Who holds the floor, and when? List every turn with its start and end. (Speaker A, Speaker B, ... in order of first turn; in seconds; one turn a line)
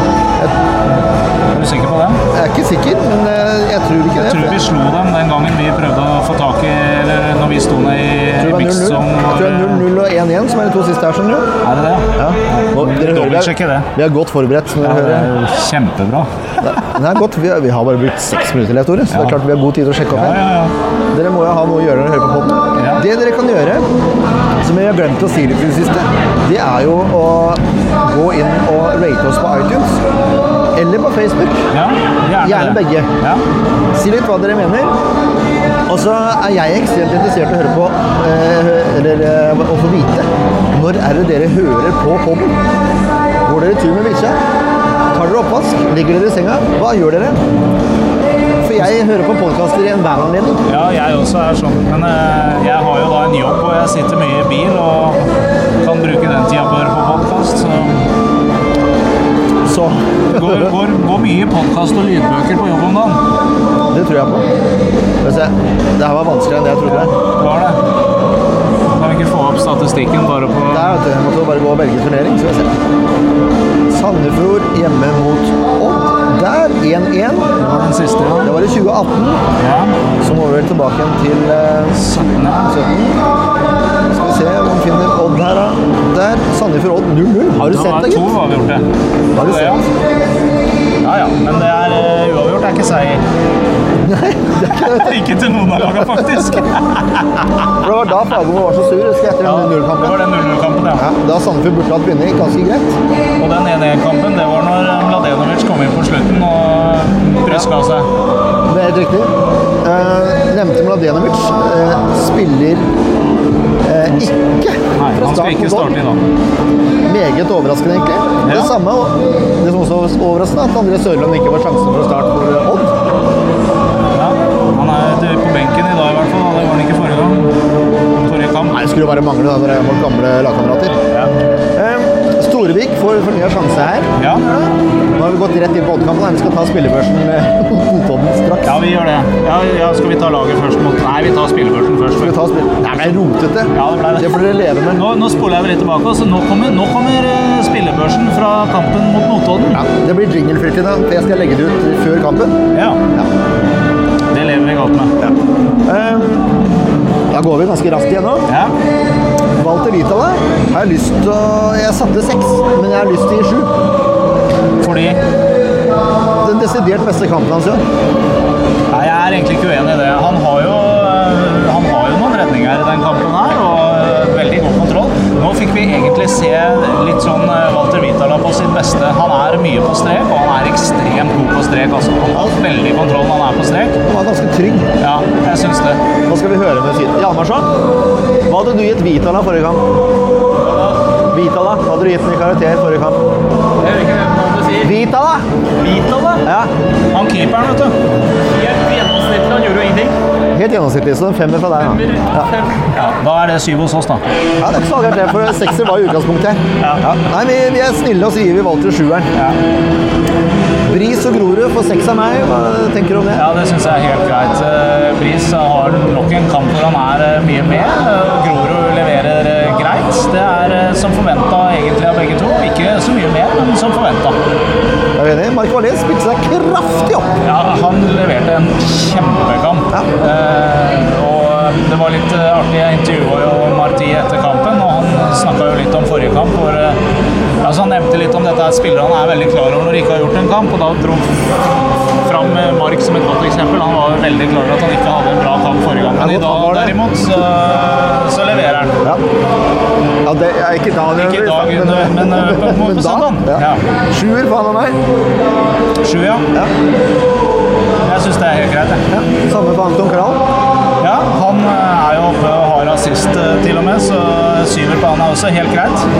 Speaker A: 1.5-2.2
Speaker B: 2.3-4.6
Speaker A: 4.2-9.8
Speaker B: 8.4-11.5
Speaker A: 11.6-13.9
Speaker B: 12.2-15.3
Speaker A: 14.8-16.3
Speaker B: 16.6-20.4
Speaker A: 19.1-19.4
Speaker A: 20.1-20.7
Speaker B: 21.1-23.9
Speaker A: 22.8-23.0
Speaker B: 24.6-30.0
Speaker B: 30.7-31.6
Speaker A: 31.7-33.4
Speaker B: 32.4-33.1
Speaker B: 33.9-34.9
Speaker B: 35.9-42.5
Speaker B: 43.4-44.4
Speaker B: 45.1-47.4
Speaker B: 48.6-50.6
Speaker A: 50.6-55.3
Speaker A: 55.8-58.0
Speaker B: 59.6-60.7
Speaker A: 60.3-63.2
Speaker B: 63.9-64.5
Speaker B: 65.2-67.1
Speaker A: 66.8-67.8
Speaker A: 69.0-70.9
Speaker B: 70.7-72.7
Speaker B: 73.9-77.6
Speaker A: 77.6-78.6
Speaker B: 78.4-79.4
Speaker A: 79.6-80.0
Speaker B: 80.2-83.2
Speaker A: 81.9-82.7
Speaker B: 84.1-88.3
Speaker A: 87.6-88.8
Speaker B: 89.3-89.8
Speaker A: 89.4-89.8
Speaker A: 91.0-93.2
Speaker B: 94.0-95.2
Speaker A: 94.6-97.7
Speaker B: 95.8-96.3
Speaker B: 97.8-100.2
Speaker A: 99.4-101.0
Speaker B: 101.0-102.9
Speaker A: 103.4-108.1
Speaker B: 108.7-109.3
Speaker B: 109.8-112.8
Speaker B: 113.8-116.0
Speaker A: 115.0-116.2
Speaker B: 117.0-122.9
Speaker A: 118.4-118.7
Speaker A: 124.1-127.5
Speaker A: 128.2-128.8
Speaker B: 128.7-131.0
Speaker B: 131.7-134.1
Speaker A: 134.2-134.7
Speaker B: 135.1-138.8
Speaker A: 138.6-142.3
Speaker B: 142.2-145.0
Speaker A: 143.7-144.4
Speaker A: 144.9-149.8
Speaker B: 149.8-152.5
Speaker A: 152.7-153.0
Speaker A: 154.3-155.1
Speaker B: 155.8-156.5
Speaker B: 157.3-158.5
Speaker A: 158.5-158.7
Speaker B: 159.6-163.7
Speaker A: 164.8-165.2
Speaker B: 166.4-167.8
Speaker A: 168.9-184.0
Speaker B: 184.1-184.9
Speaker A: 185.0-186.0
Speaker B: 186.2-187.7
Speaker B: 188.5-189.8
Speaker B: 191.3-193.2
Speaker C: 193.8-194.9
Speaker B: 194.8-195.5
Speaker A: 195.8-196.4
Speaker B: 196.4-196.7
Speaker A: 197.1-198.0
Speaker C: 198.6-200.2
Speaker B: 200.5-202.5
Speaker C: 202.1-202.8
Speaker A: 202.9-204.2
Speaker B: 204.6-209.3
Speaker A: 206.8-207.0
Speaker B: 210.8-213.4
Speaker A: 213.3-224.4
Speaker B: 225.2-227.3
Speaker A: 227.4-237.0
Speaker A: 237.6-241.3
Speaker A: 242.2-249.0
Speaker B: 246.1-247.0
Speaker B: 250.2-255.0
Speaker A: 251.1-253.8
Speaker A: 256.0-256.5
Speaker A: 258.0-259.0
Speaker B: 259.1-260.4
Speaker A: 261.0-266.1